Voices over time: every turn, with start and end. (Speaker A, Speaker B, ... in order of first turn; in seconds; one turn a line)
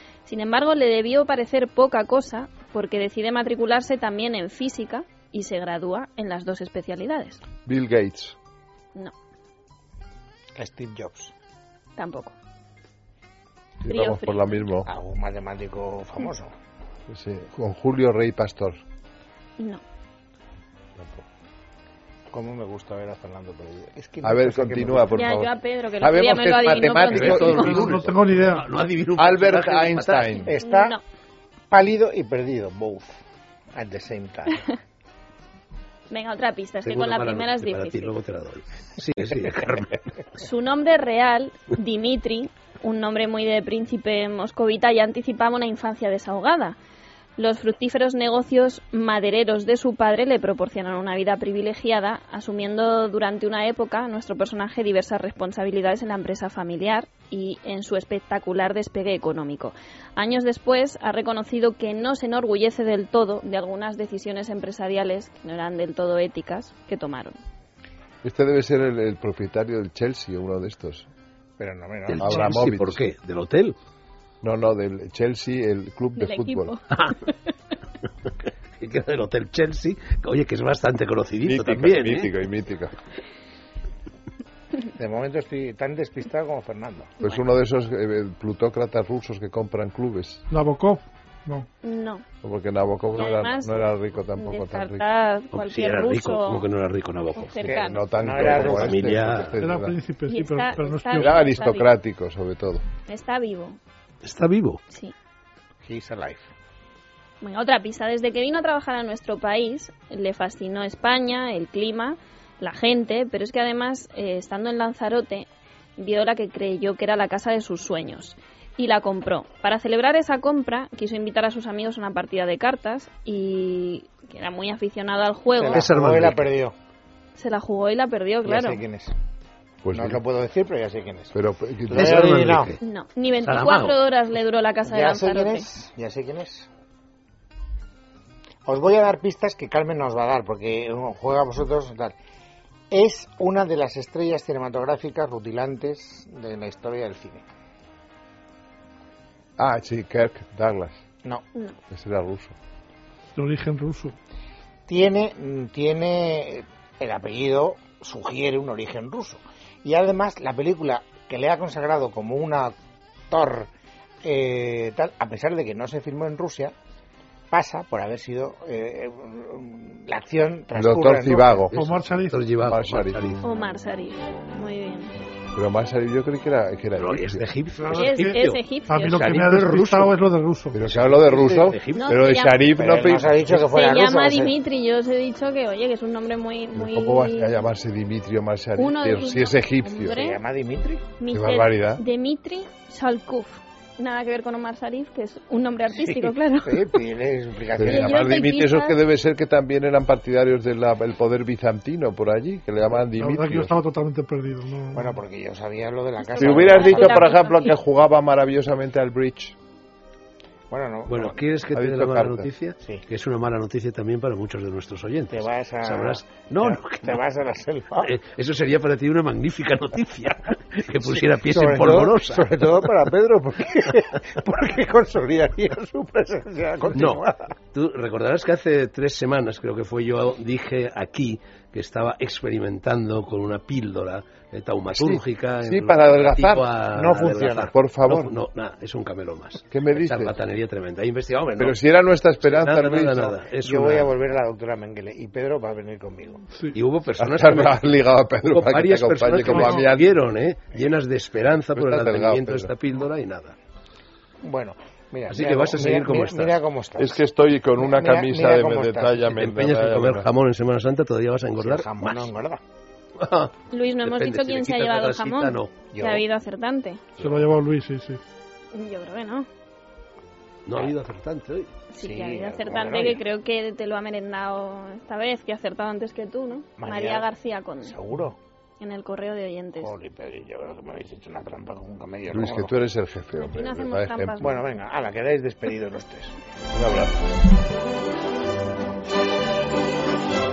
Speaker A: 0.2-7.4
Speaker B: 7.6-8.3
Speaker C: 10.6-11.3
Speaker A: 12.0-12.3
Speaker B: 13.8-14.9
Speaker A: 13.9-14.7
Speaker C: 14.8-16.5
Speaker B: 17.1-18.8
Speaker C: 22.3-25.2
Speaker B: 24.2-28.1
Speaker A: 25.1-27.9
Speaker D: 27.0-30.4
Speaker E: 27.5-28.6
Speaker B: 29.1-30.5
Speaker A: 30.3-31.0
Speaker C: 30.4-30.9
Speaker C: 31.7-33.1
Speaker C: 33.7-34.7
Speaker A: 36.1-38.2
Speaker D: 36.8-40.0
Speaker A: 40.3-46.8
Speaker A: 47.4-67.4
Speaker B: 68.2-71.1
Speaker C: 71.6-72.5
Speaker D: 72.1-73.7
Speaker B: 72.2-73.0
Speaker B: 74.4-76.7
Speaker A: 76.2-77.3
Speaker D: 78.8-82.3
Speaker B: 81.4-82.9
Speaker C: 85.0-87.2
Speaker B: 87.2-90.4
Speaker E: 90.5-91.7
Speaker A: 91.8-92.2
Speaker B: 92.4-95.0
Speaker A: 93.2-96.6
Speaker D: 95.5-97.6
Speaker A: 97.3-98.2
Speaker C: 97.6-99.0
Speaker B: 97.6-100.0
Speaker D: 98.4-99.5
Speaker E: 99.6-101.6
Speaker A: 100.3-101.9
Speaker B: 101.1-102.8
Speaker A: 103.1-103.8
Speaker D: 104.2-104.8
Speaker C: 105.8-106.5
Speaker A: 107.4-125.9
Speaker C: 125.5-126.7
Speaker D: 125.7-126.5
Speaker A: 127.3-128.8
Speaker C: 128.4-129.1
Speaker B: 129.8-130.2
Speaker C: 129.9-131.3
Speaker B: 131.3-132.3
Speaker D: 131.9-132.8
Speaker C: 131.9-132.7
Speaker A: 132.8-135.7
Speaker D: 133.4-134.0
Speaker C: 134.8-136.7
Speaker C: 138.7-142.1
Speaker C: 142.9-147.4
Speaker B: 149.6-151.0
Speaker B: 151.9-152.5
Speaker E: 153.3-154.1
Speaker C: 154.9-162.7
Speaker C: 163.3-163.7
Speaker C: 164.2-166.7
Speaker C: 167.5-171.7
Speaker B: 170.7-171.8
Speaker E: 171.7-172.5
Speaker D: 171.7-173.4
Speaker B: 172.6-173.3
Speaker A: 173.4-175.1
Speaker B: 175.5-177.4
Speaker D: 177.0-180.1
Speaker E: 177.8-180.7
Speaker A: 177.9-179.4
Speaker B: 180.7-183.6
Speaker D: 180.8-182.2
Speaker A: 181.9-182.7
Speaker C: 182.8-184.5
Speaker A: 183.5-187.6
Speaker B: 186.7-190.2
Speaker A: 188.8-190.4
Speaker C: 190.1-191.0
Speaker A: 191.2-197.0
Speaker B: 191.3-192.0
Speaker C: 195.9-198.2
Speaker B: 197.8-203.7
Speaker A: 197.8-199.0
Speaker E: 203.2-205.2
Speaker C: 204.9-207.3
Speaker A: 206.2-207.8
Speaker B: 206.4-209.5
Speaker C: 210.7-211.4
Speaker D: 211.1-217.2
Speaker B: 211.7-212.5
Speaker C: 215.3-218.1
Speaker D: 218.0-222.9
Speaker C: 221.0-227.5
Speaker D: 226.9-241.8
Speaker B: 234.9-238.3
Speaker C: 237.1-237.7
Speaker B: 239.7-240.4
Speaker B: 241.6-243.4
Speaker D: 242.4-244.1
Speaker C: 243.6-246.4
Speaker D: 246.7-253.6
Speaker B: 247.2-250.1
Speaker E: 249.5-249.8
Speaker B: 251.7-252.7
Speaker C: 254.4-257.2
Speaker D: 255.3-256.6
Speaker B: 257.0-260.3
Speaker C: 257.8-259.3
Speaker D: 259.3-262.3
Speaker C: 261.6-262.6
Speaker D: 263.2-265.7
Speaker A: 263.7-267.1
Speaker C: 265.9-266.2
Speaker E: 267.2-268.2
Speaker A: 268.7-269.5
Speaker D: 270.6-271.7
Speaker A: 271.9-277.9
Speaker C: 272.0-273.2
Speaker C: 276.8-277.3
Speaker C: 277.8-278.4
Speaker A: 278.8-279.9
Speaker C: 279.8-282.7
Speaker B: 282.3-284.4
Speaker A: 283.4-284.6
Speaker C: 284.4-286.4
Speaker B: 286.7-287.2